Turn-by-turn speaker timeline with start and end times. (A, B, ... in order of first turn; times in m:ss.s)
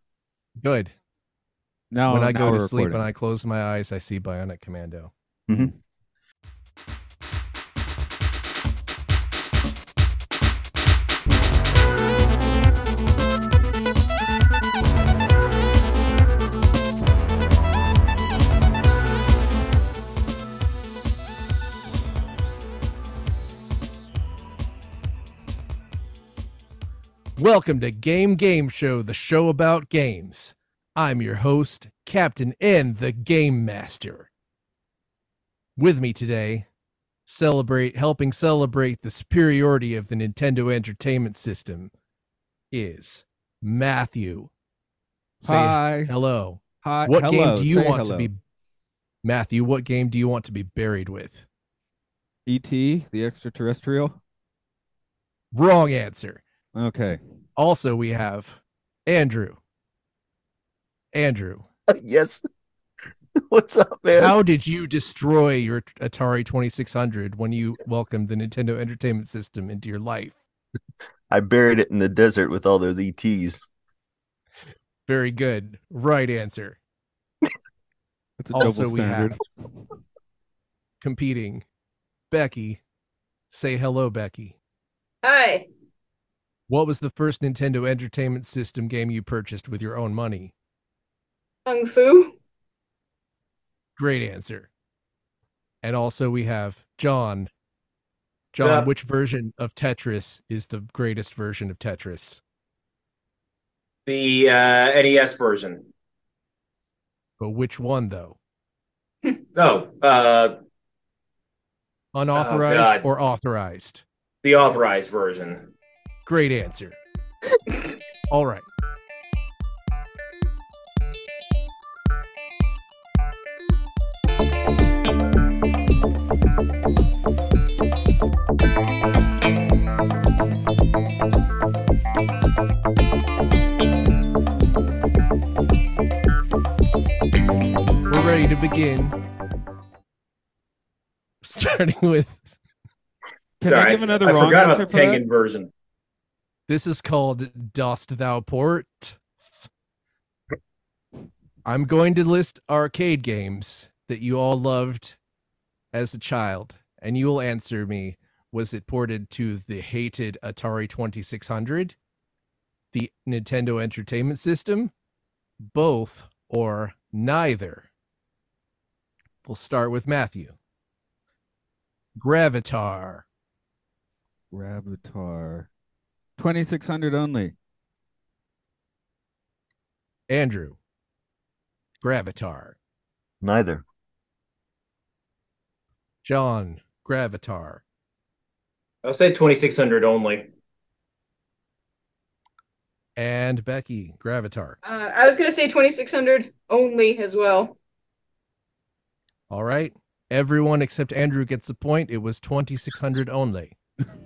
0:00.6-0:00.9 A
0:01.9-0:03.0 B
0:02.1-0:05.1 A
0:05.5-0:05.7 C
0:27.4-0:34.3 A
0:35.8-0:36.7 A
0:37.3-0:41.9 A
0:42.7-0:44.5 A
0:45.4-0:48.4 A
0:45.4-0:46.1 B
0:46.8-0:48.3 B
0:49.2-0:51.4 A
0:52.5-0:54.2 B
0:55.5-0:56.4 A
0:56.7-0:57.2 B
0:57.6-0:59.6 A
1:01.1-1:01.7 A
1:01.9-1:02.4 C
1:03.4-1:04.4 C
1:04.2-1:10.4 A
1:11.3-1:13.6 C
1:15.1-1:16.8 A
1:18.4-1:19.5 B
1:18.6-1:19.4 A
1:21.0-1:21.6 A
1:22.3-1:22.8 A
1:23.5-1:24.6 A
1:25.2-1:25.7 D
1:26.7-1:30.5 A
1:31.7-1:32.4 D
1:34.0-1:34.7 A
1:35.8-1:37.5 A
1:38.5-1:42.4 A
1:38.6-1:38.9 E
1:44.1-1:45.8 E
1:47.4-1:48.4 A
1:49.6-1:50.6 E
1:52.1-1:54.0 A
1:52.4-1:53.0 E
1:54.4-1:55.7 E
1:56.2-1:57.0 A
1:58.3-1:58.7 A
2:18.1-2:19.2 A
2:21.4-2:22.5 A
2:23.6-2:25.2 B
2:23.7-2:25.7 E
2:26.7-2:29.5 A
2:31.6-2:35.2 A
2:35.9-2:42.0 A
2:42.9-2:44.9 A
2:45.6-2:47.9 A
2:49.4-2:50.6 A
2:52.2-2:53.2 A
2:54.5-2:55.7 B
2:56.4-2:57.5 B
3:00.3-3:00.8 A
3:02.0-3:02.8 A
3:03.4-3:03.8 C
3:06.2-3:07.8 A
3:09.0-3:10.5 E
3:13.2-3:14.8 A
3:14.8-3:17.8 D
3:19.5-3:23.8 A